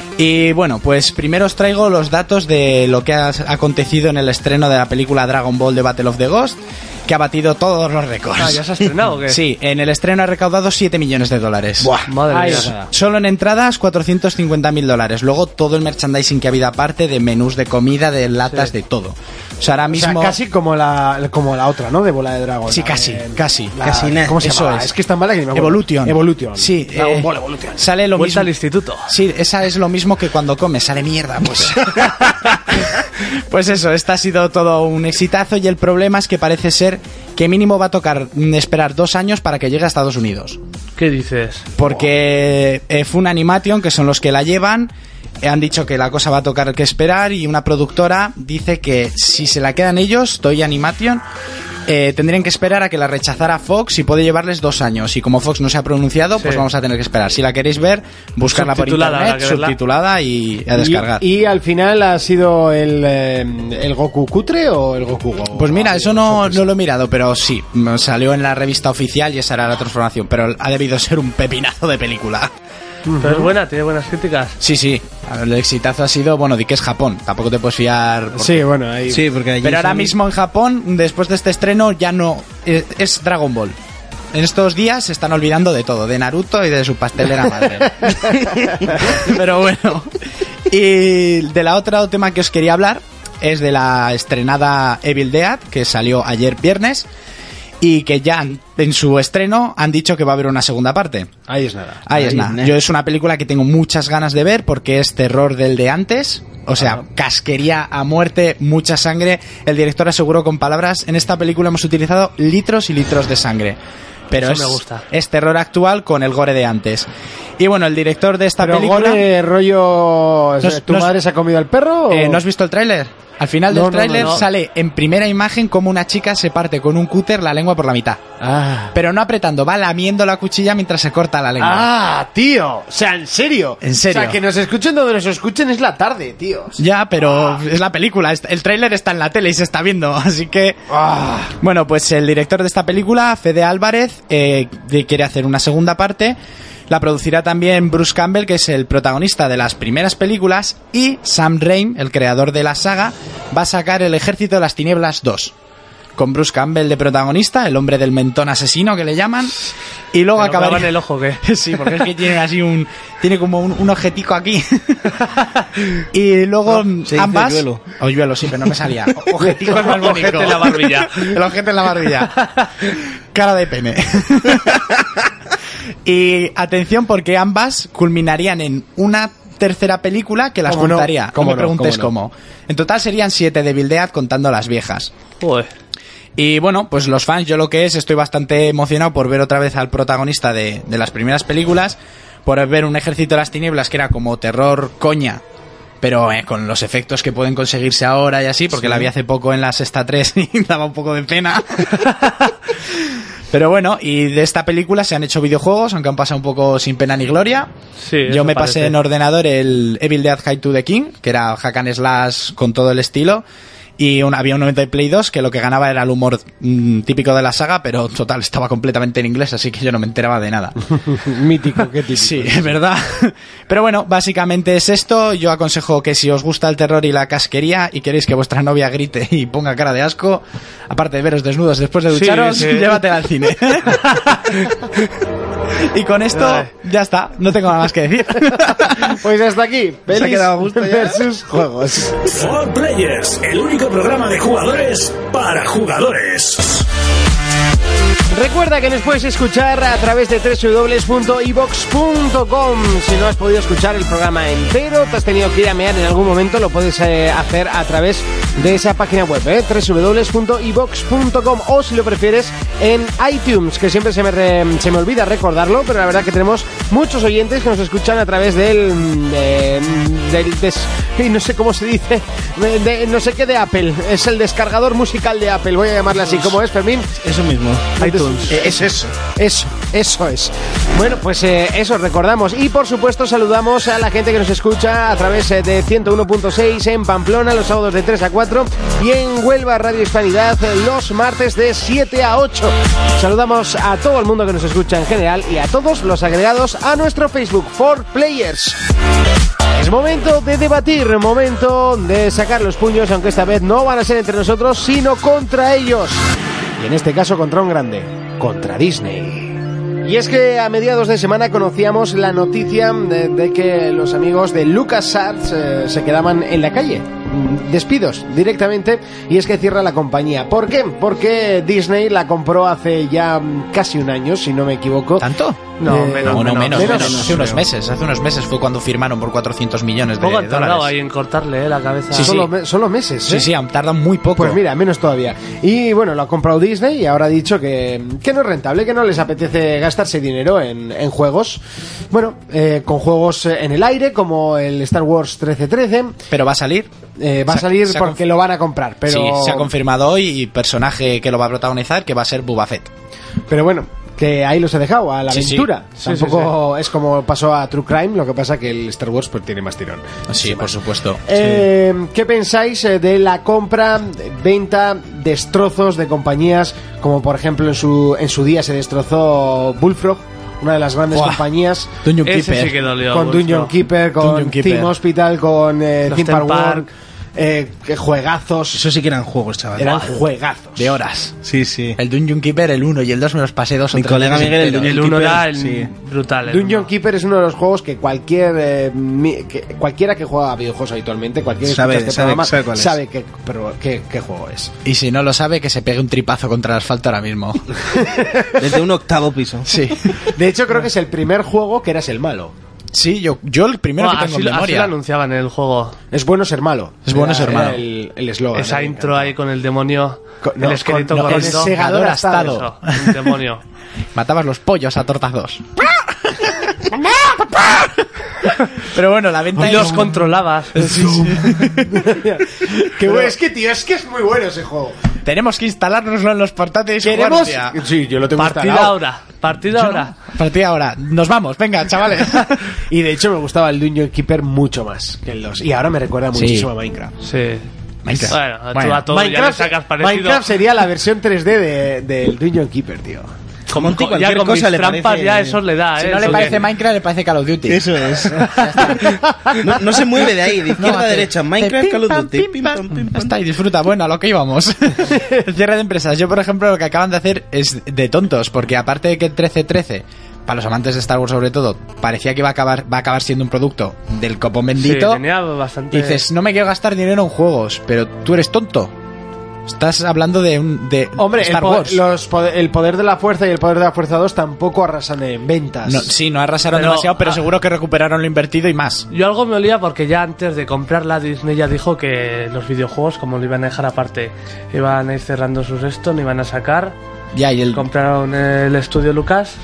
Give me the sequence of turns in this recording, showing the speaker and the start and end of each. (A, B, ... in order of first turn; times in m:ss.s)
0:00.2-0:08.7 A
0:08.4-0:09.4 B
0:09.2-0:20.4 A
0:11.9-0:12.9 C
0:12.1-0:12.7 B
0:19.9-0:27.8 C
0:22.7-0:23.8 A
0:23.8-0:24.4 D
0:24.4-0:24.9 A
0:25.5-0:28.5 A
0:28.2-0:29.1 B
0:29.1-0:40.6 A
0:41.0-0:41.7 B
0:41.8-0:51.2 A
0:51.9-1:01.2 A
0:56.4-0:56.6 B
0:58.5-0:59.8 B
1:00.8-1:06.7 C
1:05.5-1:12.5 A
1:13.1-1:13.5 C
1:13.2-1:14.6 B
1:14.6-1:18.6 A
1:18.4-1:19.3 C
1:19.1-1:20.1 D
1:19.6-1:23.8 A
1:24.3-1:30.1 A
1:30.7-1:37.1 A
1:37.8-1:41.3 A
1:41.5-1:42.2 C
1:42.1-1:53.8 A
1:42.2-1:42.7 D
1:54.3-1:57.1 A
1:54.4-1:55.0 B
1:57.6-1:59.3 A
1:58.6-2:02.4 C
2:00.6-2:01.1 A
2:02.1-2:08.2 A
2:03.7-2:04.4 C
2:04.1-2:04.4 B
2:08.4-2:08.9 C
2:08.9-2:11.9 A
2:11.6-2:17.6 C
2:13.8-2:14.4 A
2:16.8-2:20.9 A
2:20.9-2:21.5 C
2:21.6-2:26.4 A
2:26.9-2:35.5 A
2:36.2-2:39.6 A
2:40.1-2:45.3 A
2:40.4-2:42.1 B
2:46.1-2:55.1 A
2:46.8-2:47.8 D
2:49.4-2:51.4 B
2:56.0-3:05.1 A
3:00.7-3:02.1 C
3:05.4-3:05.7 B
3:06.4-3:15.4 A
3:16.0-3:27.7 A
3:28.0-3:29.0 B
3:28.3-3:33.4 A
3:34.0-3:40.8 A
3:41.1-3:42.7 C
3:42.2-3:54.1 A
3:52.1-3:53.0 B
3:53.9-3:54.9 B
3:55.8-3:59.2 A
3:56.4-3:56.7 B
3:59.0-4:02.3 C
4:00.1-4:01.3 D
4:02.3-4:06.8 E
4:08.3-4:37.1 C
4:36.3-4:36.6 D
4:37.2-4:38.0 D
4:38.0-4:58.8 C
4:38.0-4:38.6 B
4:38.5-4:39.1 D
4:59.8-5:06.2 C
5:06.8-5:25.3 C
5:25.2-5:25.7 A
5:25.8-5:27.3 B
5:25.8-5:27.6 C
5:26.2-5:30.9 A
5:26.9-5:27.3 D
5:30.2-5:32.5 B
5:32.1-5:32.5 A
5:32.2-5:33.5 C
5:33.3-5:34.6 A
5:34.4-5:46.2 C
5:46.3-5:46.9 A
5:47.2-5:49.7 C
5:47.5-5:48.2 A
5:49.1-5:52.9 A
5:53.5-6:00.7 C
5:55.3-5:55.7 A
5:56.0-5:56.5 B
6:00.3-6:01.6 A
6:01.3-6:11.9 C
6:11.1-6:11.4 A
6:12.0-6:12.8 A
6:12.2-6:13.7 B
6:13.1-6:18.9 C
6:14.2-6:14.9 A
6:16.1-6:16.9 B
6:18.7-6:20.1 D
6:19.8-6:21.0 C
6:20.8-6:21.4 A
6:21.4-6:22.0 D
6:22.0-6:25.0 A
6:23.9-6:25.9 D
6:24.8-6:26.9 B
6:26.5-6:34.7 C
6:31.6-6:33.0 D
6:34.8-6:37.7 A
6:37.9-6:38.7 C
6:38.6-6:39.7 D
6:39.7-6:40.3 A
6:40.3-6:42.5 C
6:42.9-6:44.9 A
6:44.0-6:46.0 B
6:46.1-6:49.3 C
6:47.1-6:47.8 A
6:48.5-6:51.7 B
6:50.4-6:52.6 C
6:51.1-6:53.3 A
6:52.4-6:53.6 B
6:54.2-6:58.1 A
6:58.8-7:00.2 A
6:59.6-7:01.6 B
6:59.6-7:00.2 C
7:00.7-7:03.3 A
7:01.0-7:05.0 C
7:05.2-7:07.8 A
7:07.0-7:09.0 C
7:08.4-7:10.1 B
7:09.7-7:12.7 A
7:12.9-7:17.1 C
7:16.3-7:16.7 A
7:17.2-7:17.7 B
7:18.0-7:19.1 A
7:18.2-7:20.5 B
7:19.1-7:23.3 C
7:23.7-7:26.6 B
7:23.7-7:25.6 D
7:26.0-7:29.2 A
7:27.7-7:28.6 D
7:29.0-7:29.6 C
7:29.6-7:33.3 D
7:30.8-7:45.2 A
7:44.8-7:46.2 B
7:45.9-7:48.9 A
7:49.7-7:52.0 A
7:51.2-7:56.1 C
7:55.8-7:59.1 A
7:56.7-7:57.4 B
7:59.1-8:07.0 B
8:07.4-8:07.9 A
8:07.7-8:09.6 B